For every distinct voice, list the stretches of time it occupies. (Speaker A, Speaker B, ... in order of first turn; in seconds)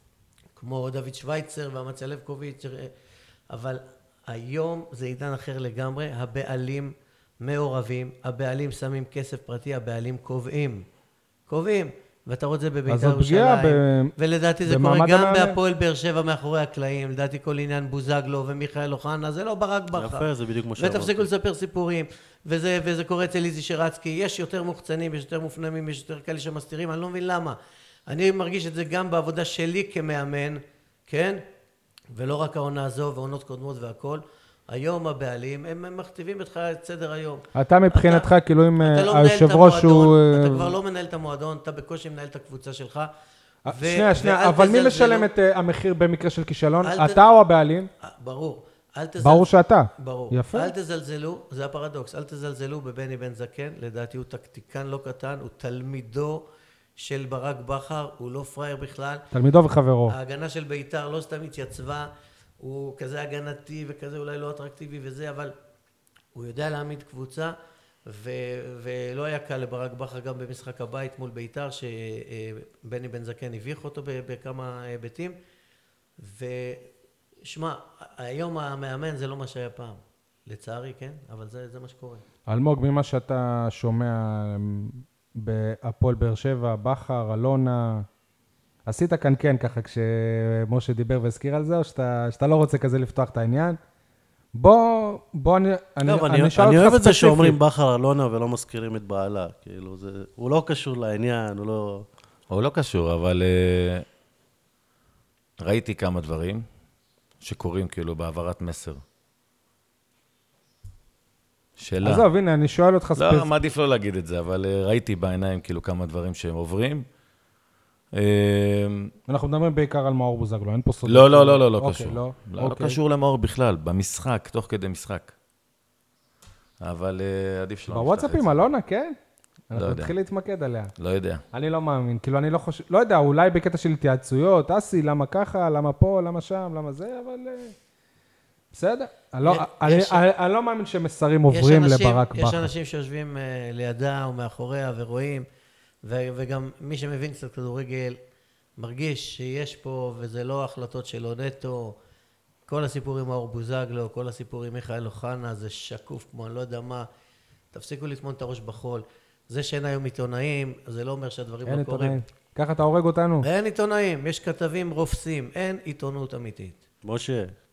Speaker A: 0.6-2.9, 3.5-10.8, 11.5-27.6, 28.1-31.4, 32.1-43.1, 43.7-45.3, 46.8-47.2, 48.0-56.4, 57.0-59.3, 60.1-65.5, 66.3-67.5, 68.0-75.4, 76.2-76.9, 77.4-82.2, 139.4-140.2, 141.5-145.4, 146.0-148.2, 148.8-152.0, 152.7-157.1, 157.7-162.2, 163.4-166.8
Speaker B: 12.9-14.1, 14.6-15.6, 37.5-40.7, 43.6-47.9, 49.2-50.7, 59.3-60.1, 82.5-88.0, 88.8-93.8, 94.5-97.6, 112.0-113.5, 119.3-123.0, 127.9-129.2, 129.7-130.9, 131.5-137.7, 138.7-142.7, 161.7-163.5
Speaker C: 19.9-21.2, 96.0-102.0, 167.0-167.6
Speaker D: 102.5-104.0, 105.6-106.7, 107.4-109.0, 111.8-112.2, 113.2-117.0, 118.1-119.1, 121.0-125.3, 126.8-128.5, 129.7-130.1, 131.0-131.4